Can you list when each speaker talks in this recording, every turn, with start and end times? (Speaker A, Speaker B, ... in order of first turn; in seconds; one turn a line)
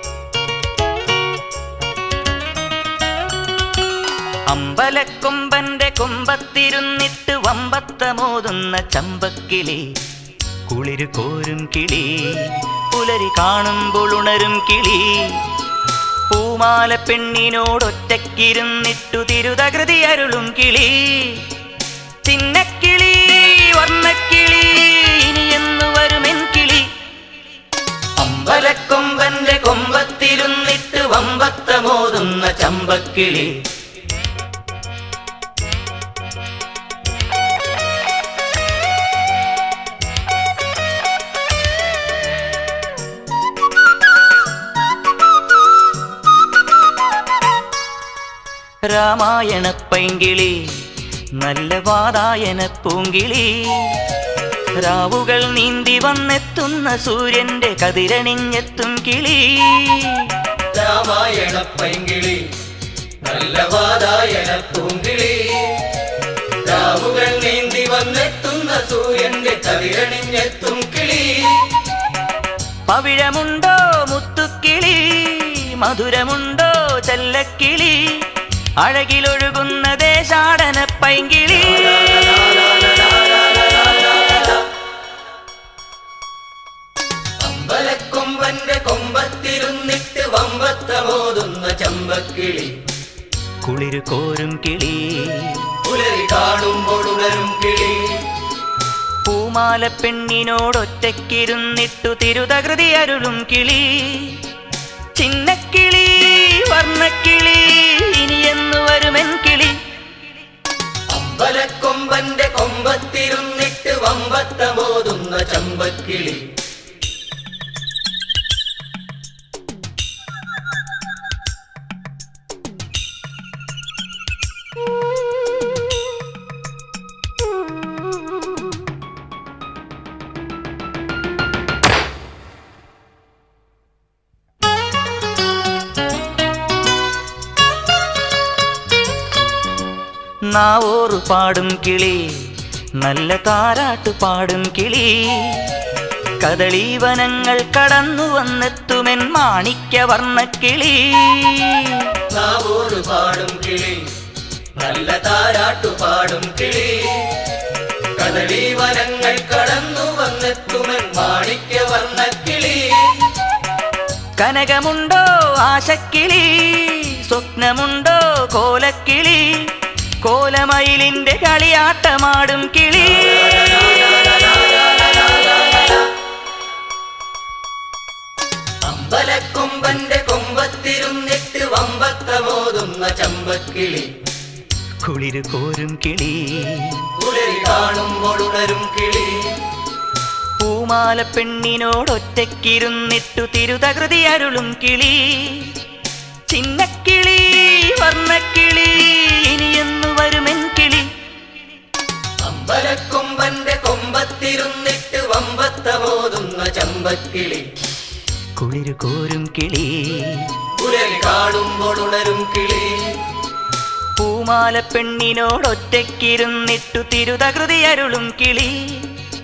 Speaker A: 4.5-9.9
Speaker A: 10.7-15.4
Speaker A: 16.3-21.5
Speaker A: 22.2-26.9
Speaker A: 28.2-33.6
Speaker A: 48.9-54.0
Speaker A: 54.8-60.4
Speaker B: 60.7-62.5
Speaker B: 63.2-65.8
Speaker B: 66.6-71.8
Speaker A: 72.9-78.3
Speaker A: 78.8-82.0
Speaker B: 81.7-84.6
Speaker B: 87.4-92.8
Speaker A: 93.6-95.7
Speaker B: 95.8-98.2
Speaker A: 99.2-104.4
Speaker A: 105.1-109.8
Speaker B: 111.1-116.5
Speaker A: 140.5-145.7
Speaker A: 146.4-152.1
Speaker B: 152.3-154.1
Speaker B: 154.8-157.3
Speaker B: 158.2-163.2
Speaker A: 164.4-173.4
Speaker B: 173.1-176.0
Speaker B: 178.8-184.1
Speaker A: 185.0-187.1
Speaker B: 187.2-189.6
Speaker A: 190.6-195.8
Speaker A: 196.5-201.1
Speaker B: 202.4-207.7
Speaker A: 208.6-210.6
Speaker B: 210.8-213.2
Speaker A: 214.2-219.2